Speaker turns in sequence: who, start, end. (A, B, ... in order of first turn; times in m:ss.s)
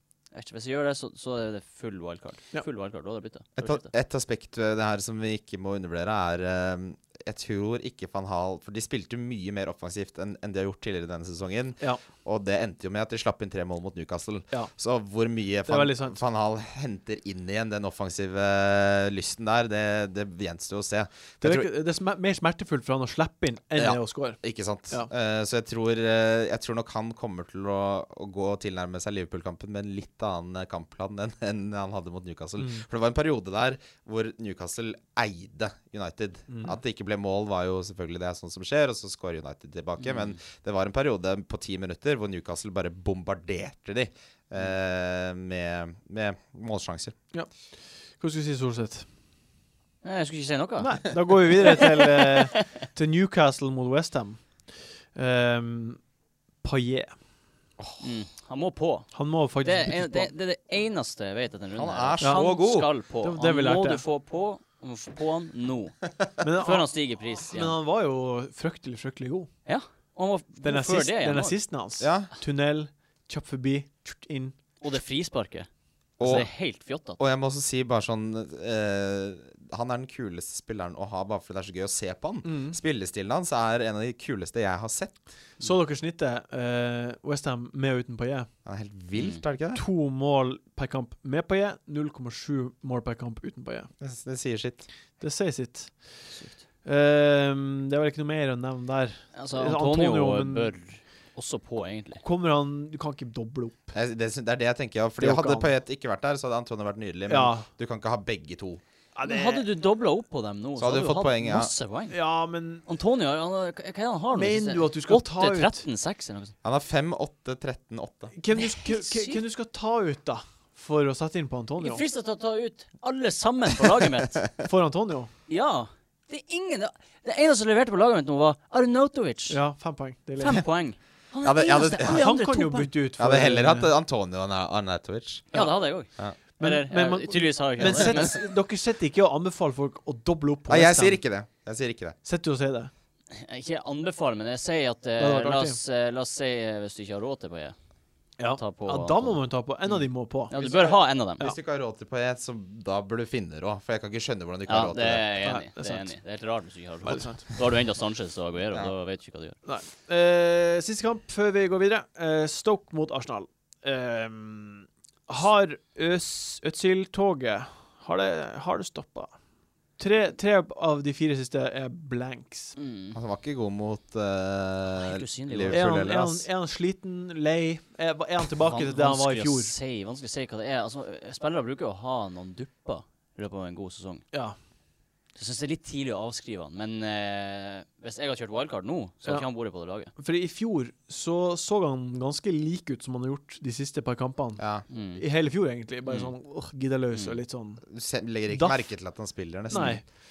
0:00.3-0:03.9 A
0:03.6-0:21.7 B
0:15.7-0:16.2 C
0:21.4-0:25.1 C
0:23.8-0:47.2 B
0:32.6-0:32.8 C
0:36.5-0:36.8 C
0:40.0-0:40.4 A
0:48.2-0:49.1 C
0:50.0-0:52.4 A
0:50.8-0:56.0 C
0:56.6-0:57.2 C
0:58.0-1:07.8 A
0:59.1-1:00.3 C
1:01.7-1:02.9 B
1:02.2-1:02.6 C
1:03.2-1:04.0 C
1:06.4-1:09.5 C
1:09.7-1:11.6 A
1:10.6-1:14.6 C
1:12.0-1:12.3 B
1:14.8-1:17.2 A
1:16.2-1:16.5 B
1:17.2-1:25.2 B
1:22.4-1:22.8 C
1:25.6-1:28.5 C
1:28.6-1:29.8 B
1:29.2-1:29.4 A
1:29.7-1:33.9 C
1:34.0-1:34.9 B
1:35.2-1:36.3 C
1:36.3-1:36.6 A
1:36.8-1:40.7 C
1:39.4-1:42.2 A
1:42.2-1:43.9 C
1:43.9-1:48.8 B
1:45.2-1:45.7 C
1:47.3-1:47.7 C
1:49.1-1:49.7 C
1:49.3-1:52.2 A
1:50.8-1:51.7 B
1:52.1-1:52.8 C
1:52.9-1:56.6 A
1:54.3-1:55.8 C
1:56.6-1:58.3 B
1:58.3-2:02.0 C
1:58.5-1:59.4 A
2:01.8-2:04.5 A
2:04.6-2:05.3 C
2:05.5-2:09.6 A
2:09.5-2:10.6 C
2:10.4-2:12.9 A
2:11.4-2:12.3 B
2:12.0-2:13.9 C
2:13.2-2:15.5 B
2:15.5-2:15.8 C
2:15.5-2:18.5 A
2:16.6-2:21.2 C
2:17.9-2:18.1 B
2:20.7-2:22.2 B
2:22.2-2:22.9 C
2:23.3-2:27.8 A
2:25.2-2:25.8 C
2:28.4-2:31.6 C
2:28.6-2:31.4 A
2:31.4-2:35.3 B
2:34.7-2:39.6 A
2:35.4-2:36.2 C
2:37.0-2:37.4 C
2:39.6-2:49.4 C
2:50.0-2:52.8 C
2:52.8-2:53.2 A
2:53.1-2:56.5 B
2:55.0-2:55.9 A
2:55.7-2:59.7 C
2:58.6-3:04.3 A
3:05.4-3:10.1 A
3:10.2-3:14.6 C
3:14.6-3:14.8 B
3:14.9-3:15.2 A
3:15.2-3:17.8 C
3:16.1-3:16.3 A
3:17.9-3:20.0 B
3:18.5-3:18.9 C
3:19.7-3:20.0 C